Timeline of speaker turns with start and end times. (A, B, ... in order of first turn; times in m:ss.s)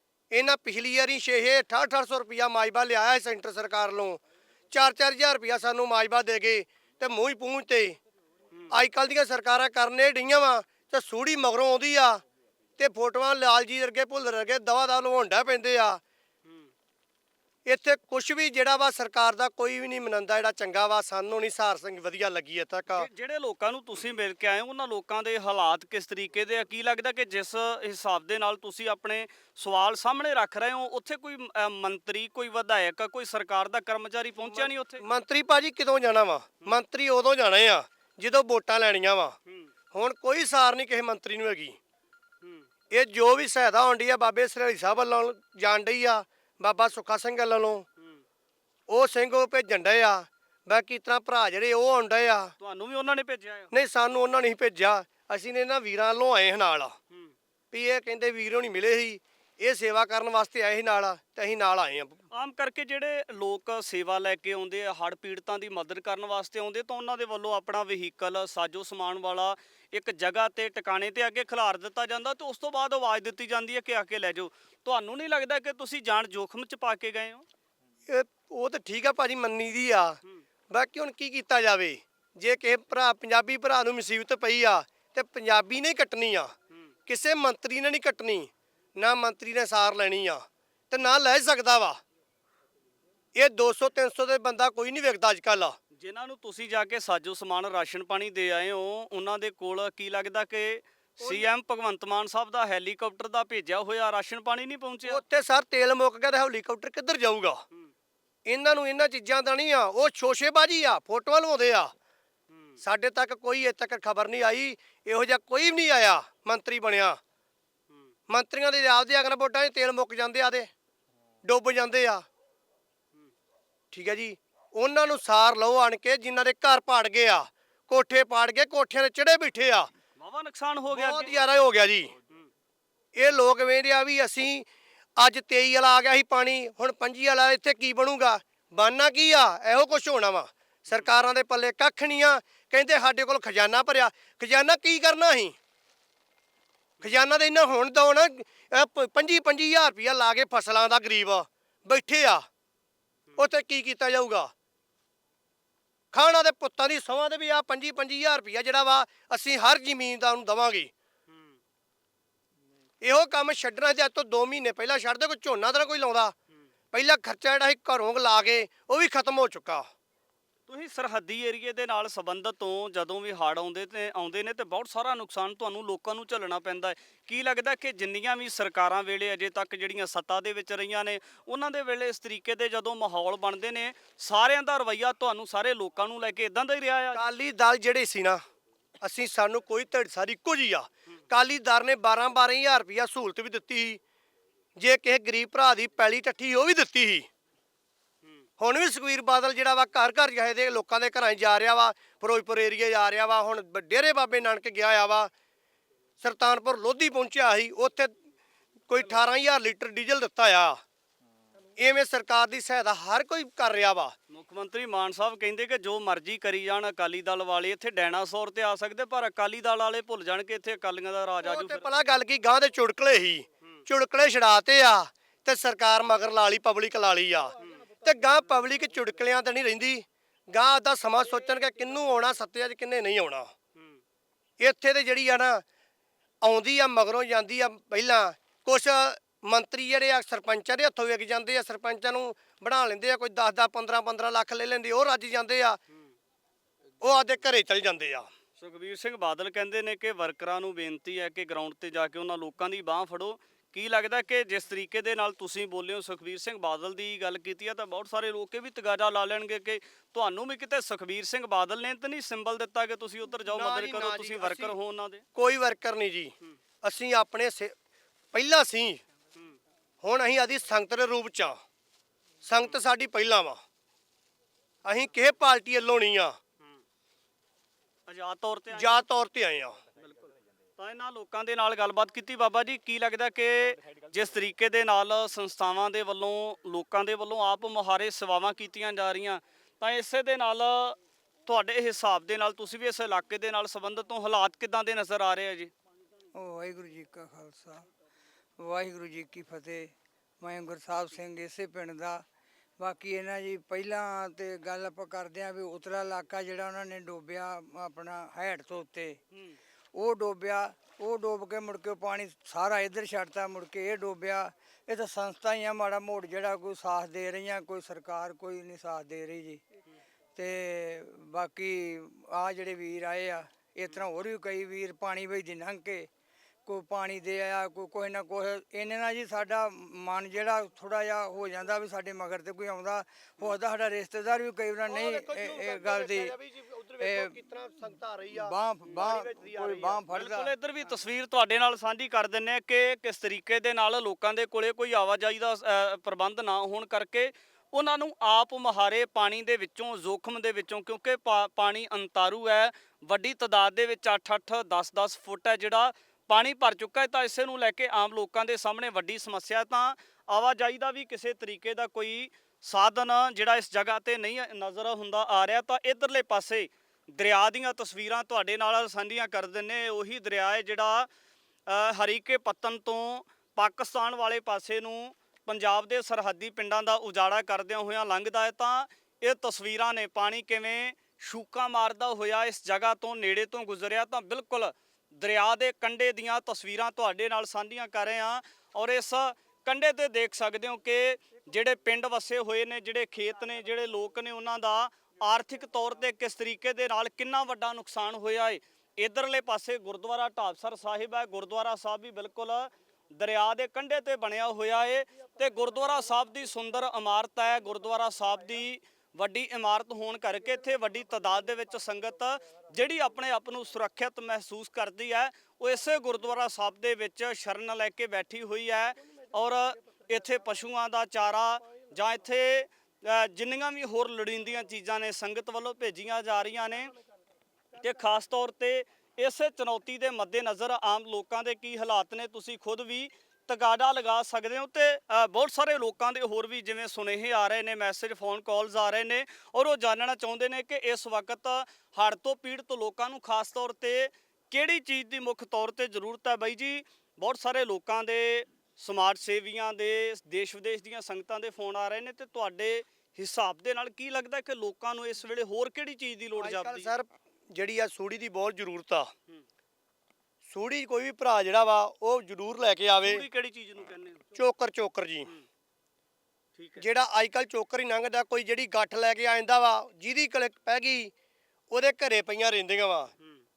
0:00.3-0:08.0 A
0:08.7-0:12.2 A
0:12.8-0:16.0 A
0:17.6-0:23.1 A
0:22.9-0:35.0 B
0:34.4-0:39.4 A
0:39.9-0:41.8 A
0:42.4-0:42.7 B
0:42.9-0:47.8 A
0:48.9-0:52.5 A
0:52.6-0:53.7 B
0:53.7-0:57.0 A
0:57.7-1:02.2 A
1:02.3-1:17.4 B
1:18.1-1:20.2 A
1:20.7-1:26.5 A
1:27.1-1:32.0 A
1:33.4-1:35.8 A
1:35.9-1:45.2 B
1:41.2-1:41.5 A
1:45.1-1:47.6 A
1:48.4-1:51.9 A
1:52.8-1:57.2 A
1:58.3-2:00.7 A
2:01.4-2:02.2 A
2:03.9-2:09.9 A
2:10.2-2:11.4 B
2:10.9-2:12.1 A
2:13.2-2:14.7 A
2:15.2-2:25.5 A
2:27.0-2:32.4 A
2:33.4-2:34.5 A
2:36.1-2:40.9 A
2:41.3-2:41.6 B
2:43.0-2:46.3 A
2:46.9-2:49.9 A
2:50.7-3:07.2 B
3:07.1-3:08.4 A
3:09.0-3:14.0 A
3:14.8-3:17.3 A
3:18.6-3:25.3 A
3:26.2-3:28.1 A
3:28.9-3:30.8 A
3:31.8-3:34.1 A
3:34.3-3:41.9 B
3:41.4-3:53.5 A
3:53.7-3:54.0 B
3:54.6-3:55.6 A
3:56.4-4:05.8 A
4:07.0-4:08.3 A
4:08.6-4:25.2 B
4:23.5-4:24.7 A
4:25.3-4:27.7 A
4:28.3-4:29.0 A
4:30.0-4:31.6 A
4:32.4-4:33.6 A
4:34.8-4:36.4 A
4:38.1-4:39.0 B
4:38.7-4:39.8 A
4:40.0-4:55.7 B
4:56.3-4:57.8 C
4:58.6-5:02.2 C
5:02.8-5:09.2 C
5:09.3-5:09.6 B
5:09.9-5:19.6 C
5:20.4-5:26.1 C
5:26.6-5:36.3 C
5:34.9-5:40.0 A
5:37.0-5:37.4 C
5:38.3-5:40.5 C
5:40.1-6:11.1 B
6:11.7-7:06.9 B
7:07.8-7:36.9 B
7:36.4-7:39.1 A
7:40.4-7:43.2 A
7:43.0-7:44.2 B
7:44.3-7:45.3 A
7:46.6-7:46.8 B
7:46.8-7:51.1 A
7:51.7-7:53.1 A